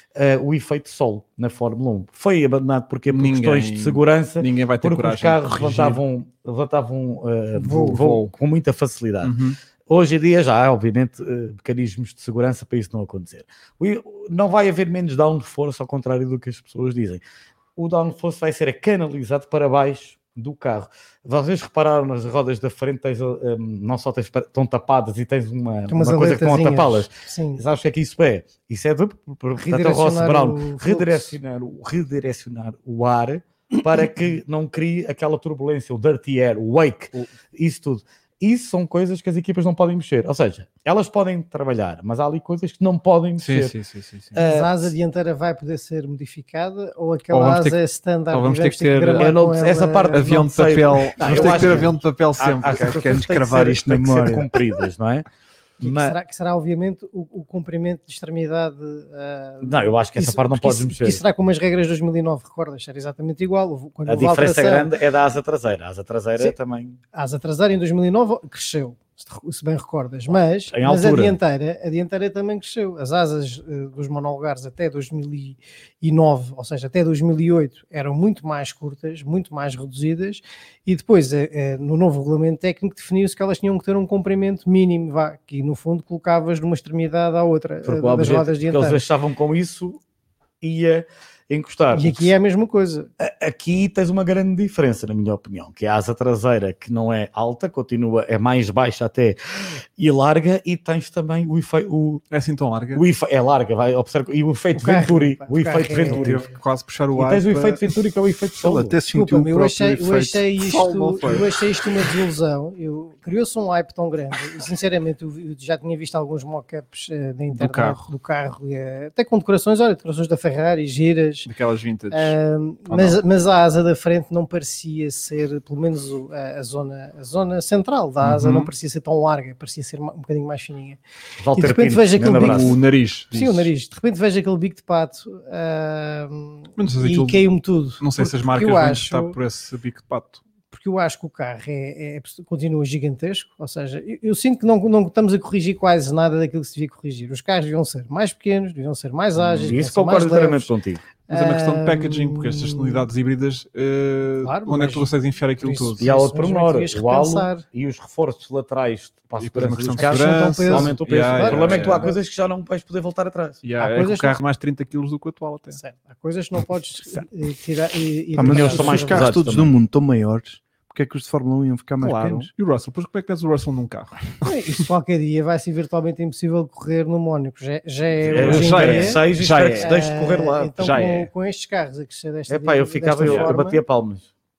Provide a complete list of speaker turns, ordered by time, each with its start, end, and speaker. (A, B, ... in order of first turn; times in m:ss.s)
0:00.1-0:09.4 A
0:03.1-0:06.0 B
0:07.6-0:08.1 C
0:07.8-0:08.3 B
0:09.2-0:09.6 B
0:09.9-0:17.2 A
0:17.8-0:43.8 A
0:25.9-0:27.6 C
0:29.6-0:31.4 C
0:43.4-0:44.4 B
0:44.3-0:44.9 A
0:44.4-0:50.4 C
0:47.3-0:47.8 B
0:48.3-0:49.3 B
0:49.2-0:55.3 A
0:50.1-0:52.9 B
0:51.3-0:51.9 D
0:52.6-0:54.5 D
0:55.8-0:56.2 A
0:55.8-1:04.9 C
0:59.6-1:01.2 A
1:04.1-1:07.0 A
1:07.1-1:29.0 C
1:10.7-1:11.4 A
1:27.8-1:30.0 A
1:30.6-1:32.3 A
1:31.9-1:33.1 C
1:33.2-1:39.4 A
1:40.0-1:42.2 A
1:42.3-1:43.0 B
1:42.9-1:46.4 A
1:44.8-1:46.4 C
1:46.0-1:47.9 B
1:47.1-1:49.0 A
1:48.6-1:51.4 D
1:49.1-2:01.5 C
1:50.6-1:51.5 B
1:57.6-1:58.1 B
2:01.5-2:02.4 B
2:02.1-2:11.0 C
2:02.9-2:03.2 B
2:08.2-2:08.7 B
2:11.4-2:12.8 A
2:11.6-2:12.8 C
2:12.3-2:13.7 B
2:13.3-2:19.4 C
2:16.8-2:17.4 B
2:18.0-2:20.4 B
2:20.7-2:30.7 C
2:29.4-2:31.0 A
2:31.3-2:33.1 C
2:31.3-2:36.0 B
2:34.4-2:37.6 C
2:36.0-2:43.6 A
2:39.4-2:42.1 B
2:40.0-2:42.2 C
2:43.6-2:45.8 B
2:43.8-2:44.4 C
2:45.7-2:49.4 C
2:48.4-2:52.5 D
2:48.5-2:49.7 A
2:52.0-2:54.6 B
2:54.4-2:59.2 C
2:58.2-3:00.0 B
2:58.3-3:01.1 A
2:59.8-3:03.8 C
3:00.8-3:01.3 B
3:02.5-3:04.3 A
3:03.2-3:03.5 B